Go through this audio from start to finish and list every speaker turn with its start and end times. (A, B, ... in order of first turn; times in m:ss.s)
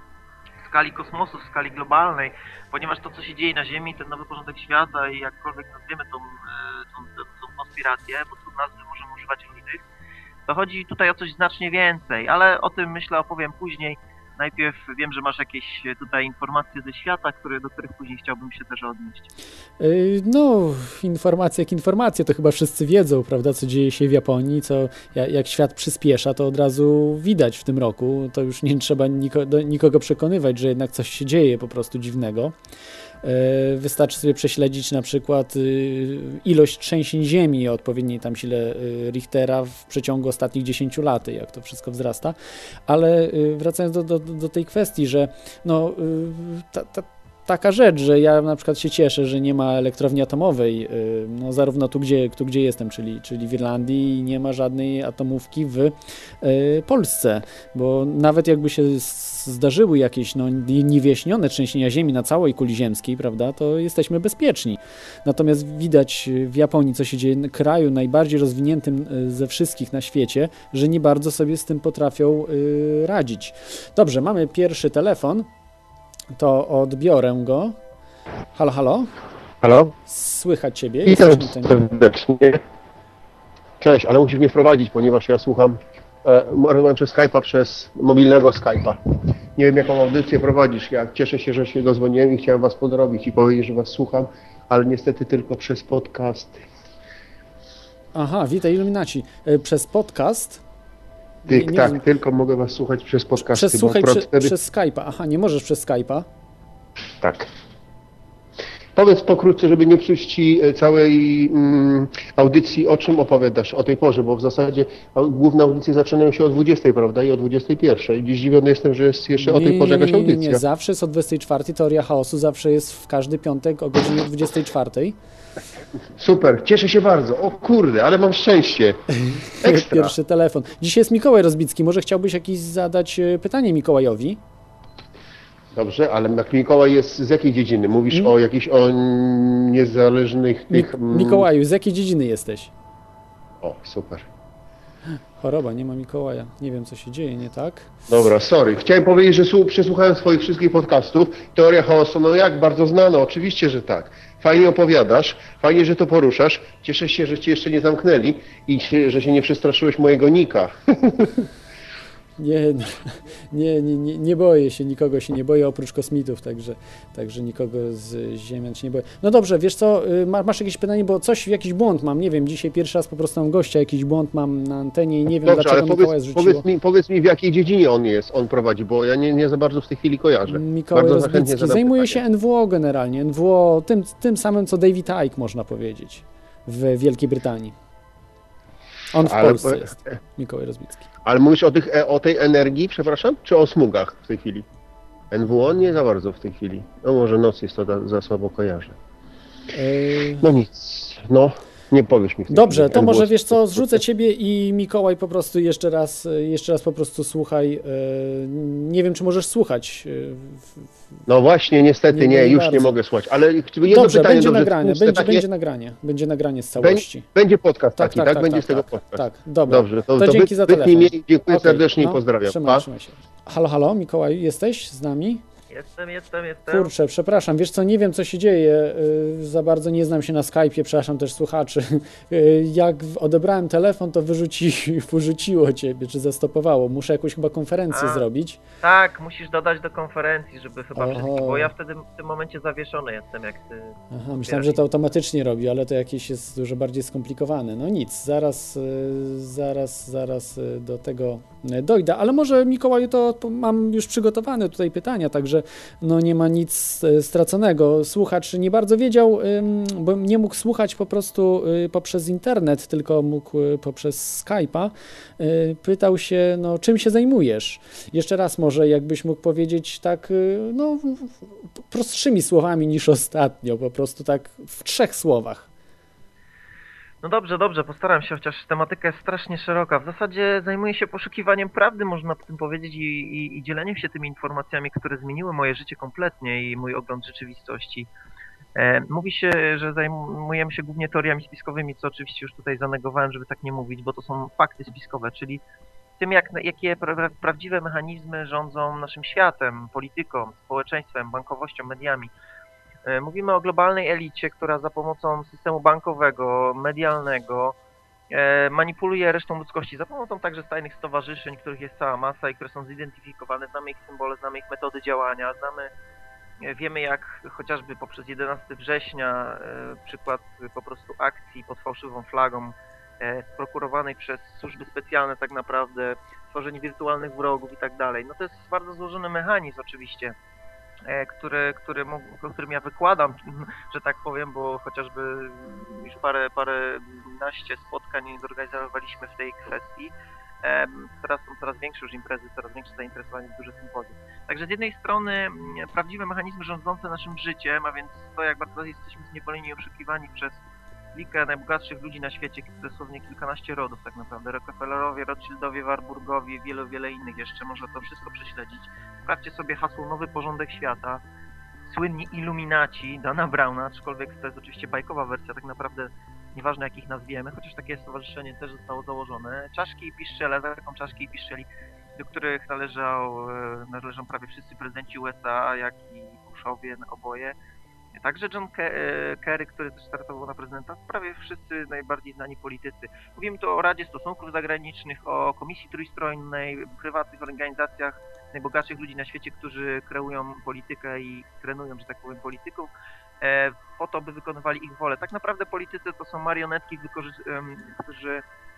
0:00.6-0:09.8 A
0:10.5-0:19.3 A
0:19.8-0:32.6 B
0:33.2-1:15.5 B
1:16.3-1:17.8 B
1:18.5-1:19.1 B
1:19.6-1:19.9 C
1:20.0-1:21.8 B
1:21.0-1:22.6 C
1:23.8-1:29.0 C
1:29.6-1:36.6 C
1:38.1-1:40.6 B
1:41.4-1:42.0 B
1:41.5-1:44.5 C
1:43.4-1:46.3 B
1:47.2-1:47.5 C
1:49.0-2:00.6 C
1:59.4-2:05.2 B
2:06.2-2:10.1 C
2:09.2-2:14.4 B
2:15.7-2:21.4 C
2:20.7-2:22.7 B
2:23.6-2:24.2 C
2:25.4-2:27.9 B
2:28.1-2:41.5 C
2:42.4-2:56.6 B
2:55.4-3:02.2 C
3:00.5-3:07.8 B
3:09.1-3:11.1 B
3:09.2-3:10.1 C
3:11.2-3:14.6 C
3:15.3-3:19.0 C
3:19.7-3:20.5 B
3:20.4-3:24.0 C
3:22.5-3:30.9 B
3:31.3-3:35.4 C
3:32.1-3:33.0 B
3:33.8-3:37.2 B
3:36.8-3:42.8 C
3:38.0-3:45.4 B
3:45.7-3:46.9 A
3:46.7-3:58.6 B
3:57.9-3:58.2 A
3:58.8-4:04.8 A
4:01.0-4:01.7 B
4:04.1-4:35.7 B
4:37.2-4:48.1 A
4:48.8-4:55.6 A
4:56.2-5:02.3 A
5:03.0-5:07.8 A
5:08.3-5:15.9 A
5:16.6-5:30.3 A
5:31.1-5:50.6 A
5:51.1-6:01.2 A
6:01.8-6:17.6 A
6:18.2-6:32.9 A
6:33.4-6:38.4 A